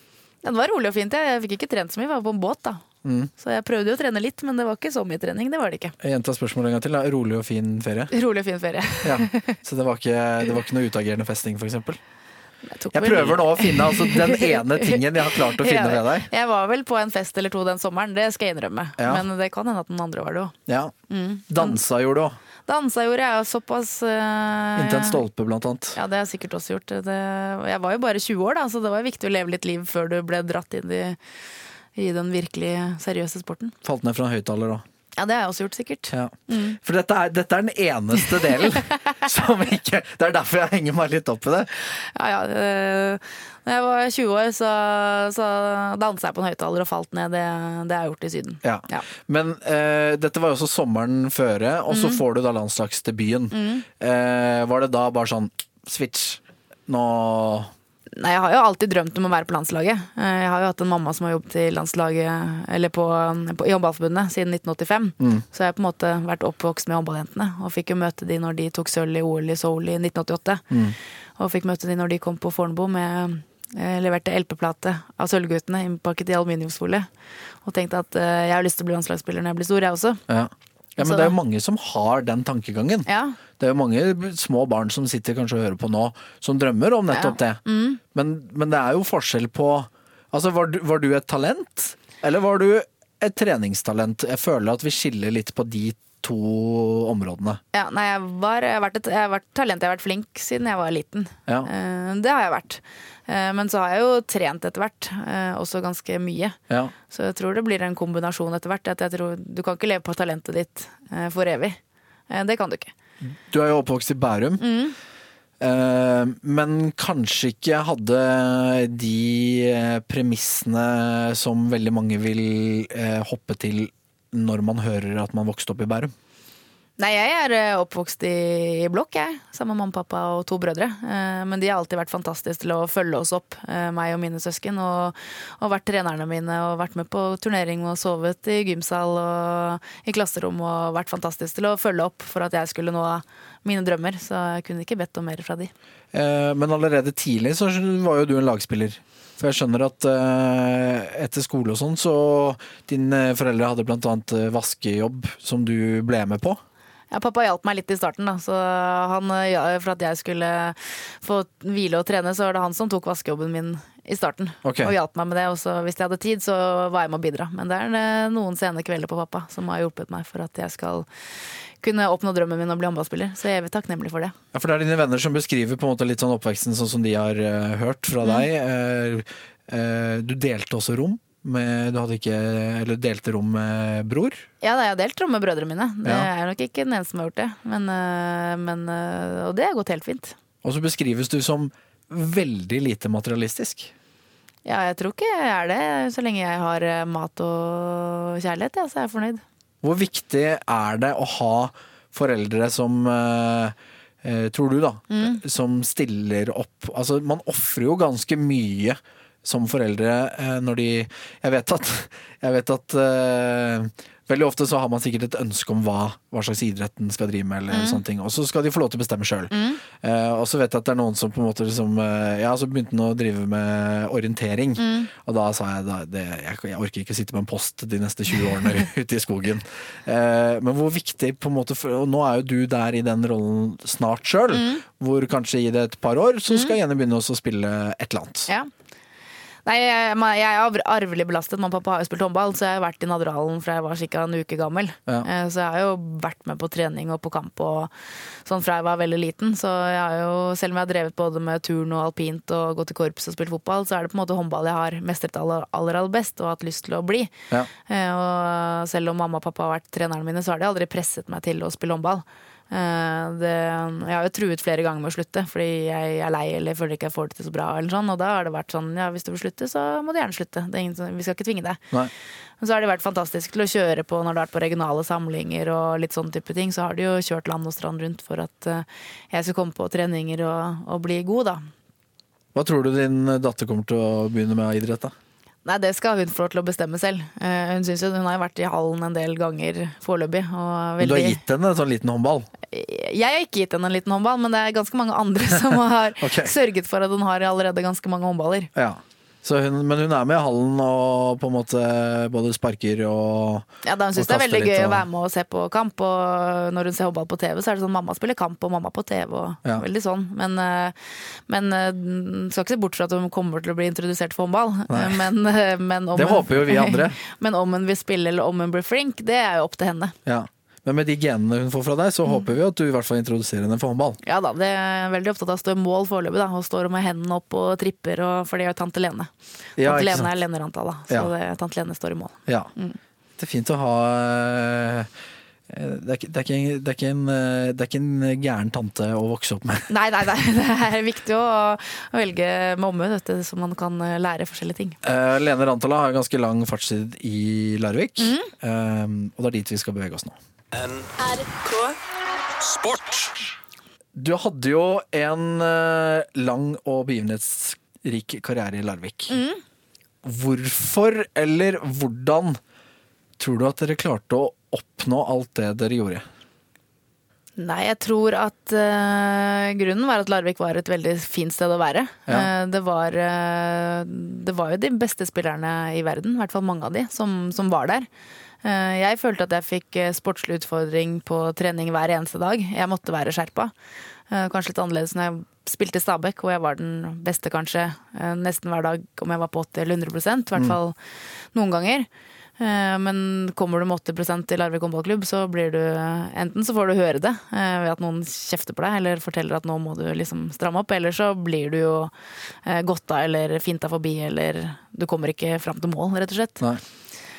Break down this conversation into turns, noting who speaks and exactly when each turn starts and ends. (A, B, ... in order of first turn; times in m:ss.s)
0:00.4-0:02.8 A
0:03.0-0:03.3 B
0:03.4-0:05.9 A
0:06.0-0:08.1 B
0:08.1-0:09.5 A
0:09.0-0:12.0 B
0:12.7-0:20.5 A
0:12.9-0:16.3 B
0:19.0-0:19.2 B
0:20.7-0:20.9 B
0:21.1-0:21.8 A
0:21.5-0:22.4 B
0:22.7-0:25.2 A
0:24.8-0:26.0 B
0:25.9-0:31.2 A
0:32.0-0:33.7 A
0:33.8-0:34.8 B
0:35.2-0:36.8 A
0:36.1-0:41.7 B
0:38.6-0:39.1 A
0:41.8-0:49.1 A
0:48.6-0:57.7 B
0:51.9-0:52.2 A
0:53.5-0:53.8 A
0:58.2-1:10.7 A
1:10.7-1:11.0 B
1:11.4-1:17.1 A
1:17.6-1:20.2 A
1:20.3-1:37.6 B
1:21.0-1:21.3 A
1:23.1-1:23.4 A
1:27.1-1:28.0 A
1:37.7-1:46.6 A
1:47.1-1:51.8 A
1:52.3-1:52.9 A
1:53.5-1:54.6 B
1:54.6-1:55.0 A
1:55.6-2:06.1 B
2:07.0-2:25.7 A
2:26.1-2:36.6 B
2:37.1-2:54.3 A
2:44.6-2:44.9 B
2:54.5-3:04.4 B
3:04.6-3:10.4 A
3:10.6-3:13.9 B
3:14.6-3:19.4 A
3:19.8-3:58.5 B
3:25.1-3:25.4 A
3:37.7-3:38.0 A
3:39.5-3:39.8 A
3:44.8-3:45.1 A
3:54.5-3:54.8 A
3:56.5-3:56.8 A
3:59.6-4:07.9 A
4:08.4-4:17.3 A
4:17.8-4:31.8 A
4:32.6-4:41.7 A
4:42.5-4:45.1 B
4:45.6-4:51.4 A
4:51.0-4:52.5 B
4:52.7-4:58.7 A
4:56.2-4:56.5 B
4:58.7-5:05.0 B
5:03.8-5:11.0 A
5:11.5-5:20.2 A
5:14.9-5:15.2 B
5:16.1-5:17.2 B
5:20.2-5:24.2 B
5:24.2-5:33.0 A
5:29.8-5:30.3 B
5:33.4-5:35.1 B
5:35.7-5:39.9 B
5:39.9-5:45.0 A
5:45.0-5:50.4 B
5:48.2-5:48.5 A
5:50.7-5:52.0 C
5:52.6-5:53.5 C
5:54.1-5:59.4 B
5:59.3-5:59.6 A
6:00.2-6:02.6 B
6:03.4-6:06.2 B
6:07.6-6:18.1 A
6:18.6-6:23.7 A
6:24.3-6:31.0 A
6:31.5-6:32.1 A
6:32.6-6:46.6 A